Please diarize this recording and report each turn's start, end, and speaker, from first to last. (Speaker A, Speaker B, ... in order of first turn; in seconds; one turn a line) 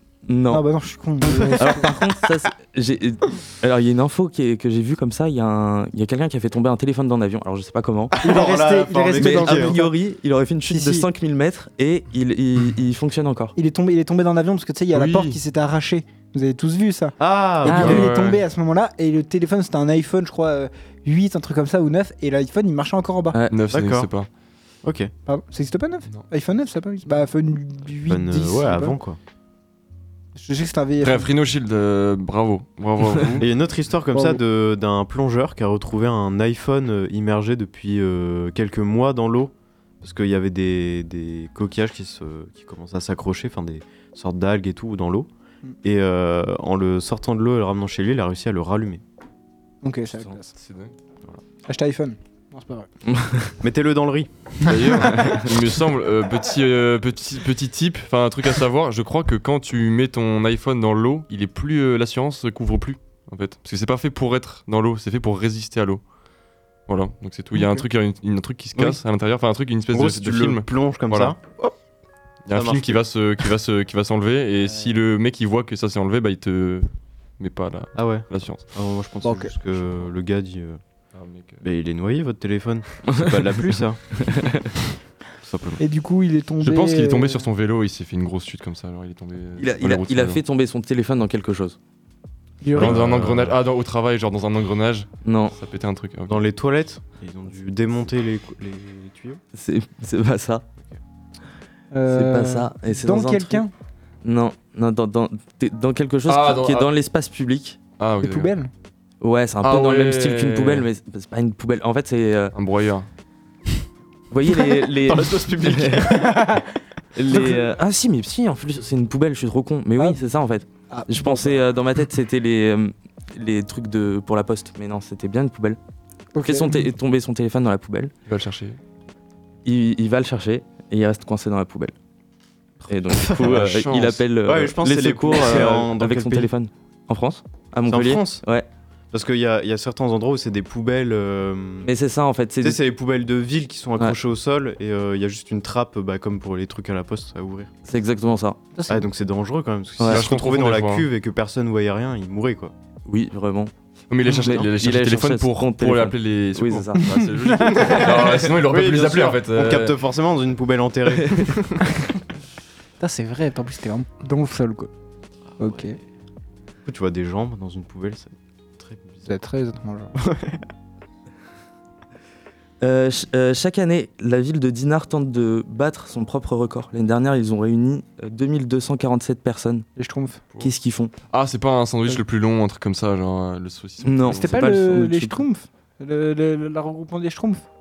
Speaker A: 0.3-0.7
Speaker B: 0.5-1.9
Speaker A: 1.4-8.2
Speaker C: 8.2-9.8
Speaker B: 8.2-9.9
Speaker A: 9.2-13.6
Speaker B: 10.7-11.1
Speaker B: 13.6-23.4
Speaker D: 14.9-15.4
Speaker C: 17.2-18.1
Speaker D: 17.6-18.4
Speaker A: 23.3-23.6
Speaker D: 23.5-24.3
Speaker C: 23.7-24.1
Speaker C: 24.8-25.1
Speaker B: 25.3-29.0
Speaker C: 28.1-29.2
Speaker B: 30.4-31.3
Speaker D: 31.0-33.5
Speaker C: 33.4-45.3
Speaker B: 34.1-34.4
Speaker C: 45.8-49.0
Speaker B: 49.8-50.5
Speaker D: 50.5-50.9
Speaker B: 51.7-52.9
Speaker A: 53.0-53.5
Speaker C: 53.6-55.2
Speaker D: 54.6-66.0
Speaker A: 55.0-55.5
Speaker D: 66.9-71.4
Speaker B: 67.5-67.8
Speaker C: 68.8-69.0
Speaker C: 69.9-71.8
Speaker D: 72.5-78.6
Speaker C: 72.5-73.0
Speaker C: 78.0-80.8
Speaker B: 79.2-79.5
Speaker D: 81.1-81.6
Speaker C: 81.6-84.2
Speaker A: 83.1-83.4
Speaker A: 84.2-84.7
Speaker C: 85.4-85.8
Speaker B: 85.8-87.5
Speaker D: 86.6-90.4
Speaker A: 89.6-91.8
Speaker B: 92.6-93.0
Speaker C: 92.7-93.6
Speaker D: 92.8-96.4
Speaker A: 95.2-95.5
Speaker C: 96.3-99.4
Speaker A: 99.5-100.7
Speaker B: 101.9-103.7
Speaker A: 102.1-103.7
Speaker A: 104.2-107.8
Speaker D: 106.3-106.9
Speaker D: 108.0-108.6
Speaker B: 108.2-108.7
Speaker A: 109.2-112.5
Speaker D: 109.6-110.9
Speaker D: 112.5-113.1
Speaker A: 114.3-116.3
Speaker C: 114.5-116.3
Speaker B: 116.1-116.7
Speaker A: 117.2-125.8
Speaker B: 117.3-117.6
Speaker B: 120.9-121.6
Speaker B: 126.3-126.9
Speaker A: 126.5-128.1
Speaker D: 128.3-128.8
Speaker A: 129.7-131.9
Speaker A: 132.9-138.7
Speaker C: 133.1-133.7
Speaker D: 133.4-134.2
Speaker C: 134.4-136.5
Speaker C: 137.9-138.4
Speaker C: 139.1-141.9
Speaker A: 141.8-142.8
Speaker C: 142.6-147.7
Speaker A: 147.9-148.6
Speaker B: 148.8-149.1
Speaker C: 148.9-152.7
Speaker D: 150.0-151.1
Speaker A: 153.1-153.7
Speaker D: 154.1-160.0
Speaker C: 154.3-154.7
Speaker A: 154.3-157.0
Speaker B: 157.0-158.0
Speaker C: 157.7-162.0
Speaker B: 163.0-164.9
Speaker B: 165.6-166.0
Speaker C: 166.8-169.3
Speaker B: 169.3-170.1
Speaker C: 170.2-170.7
Speaker A: 172.8-179.9
Speaker B: 180.0-180.4
Speaker A: 180.6-181.1
Speaker D: 181.3-184.8
Speaker A: 184.0-185.4
Speaker B: 184.3-187.7